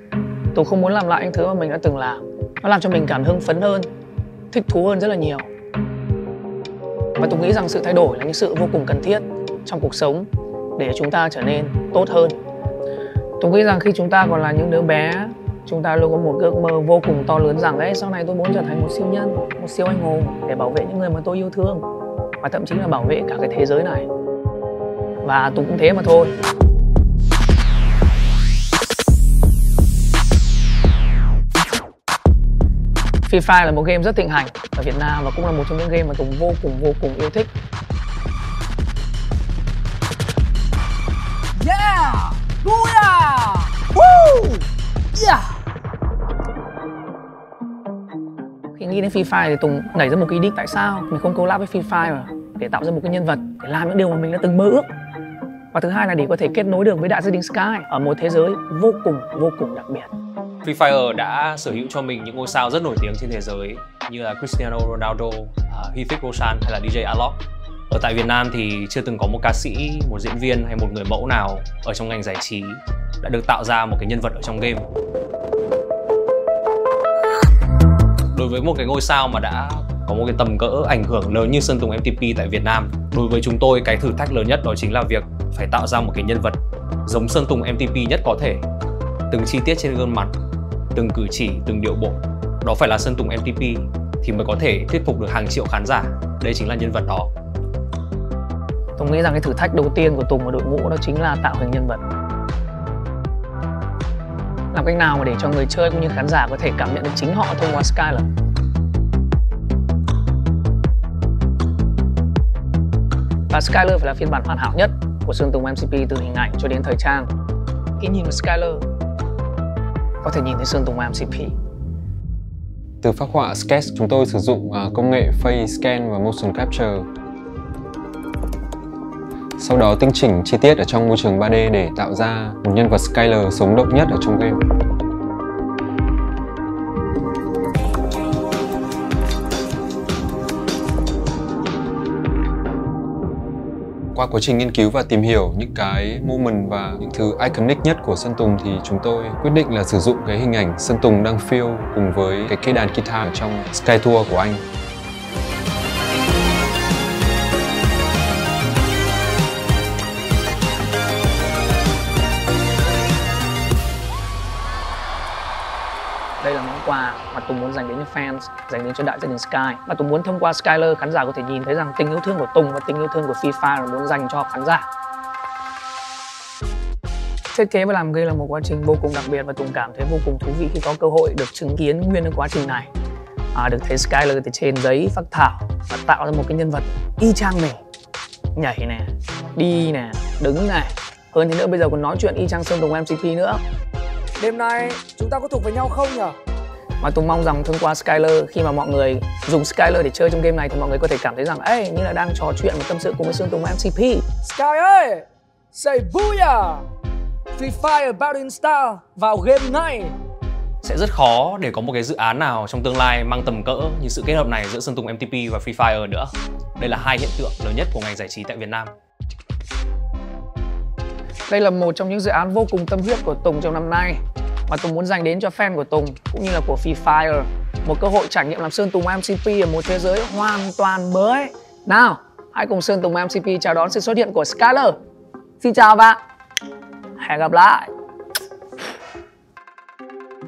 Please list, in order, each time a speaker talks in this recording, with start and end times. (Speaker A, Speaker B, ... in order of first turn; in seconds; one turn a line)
Speaker A: 0.5-3.9
Speaker A: 4.5-5.5
Speaker A: 7.2-12.3
Speaker A: 13.4-21.8
Speaker A: 22.4-24.1
Speaker A: 25.2-26.4
Speaker A: 33.2-37.5
Speaker B: 41.6-45.6
Speaker A: 48.8-54.9
Speaker A: 55.7-60.1
Speaker C: 60.6-67.4
Speaker C: 67.9-74.9
Speaker C: 78.3-88.7
Speaker C: 89.3-90.3
Speaker C: 90.9-97.3
Speaker A: 99.0-102.0
Speaker A: 104.7-108.3
Speaker A: 113.5-117.3
Speaker A: 118.0-118.8
Speaker A: 120.2-121.5
Speaker D: 123.0-127.1
Speaker D: 129.6-134.6
Speaker D: 144.1-154.6
Speaker A: 166.4-174.9
Speaker A: 177.5-182.9
Speaker A: 183.5-187.8
Speaker A: 188.6-193.6
Speaker B: 194.4-196.3
Speaker A: 197.0-204.2
Speaker B: 204.4-206.9
Speaker B: 207.5-210.1
Speaker C: 210.8-218.9
Speaker A: 221.5-235.0
Speaker A: 235.6-236.2
Speaker A: 237.2-237.9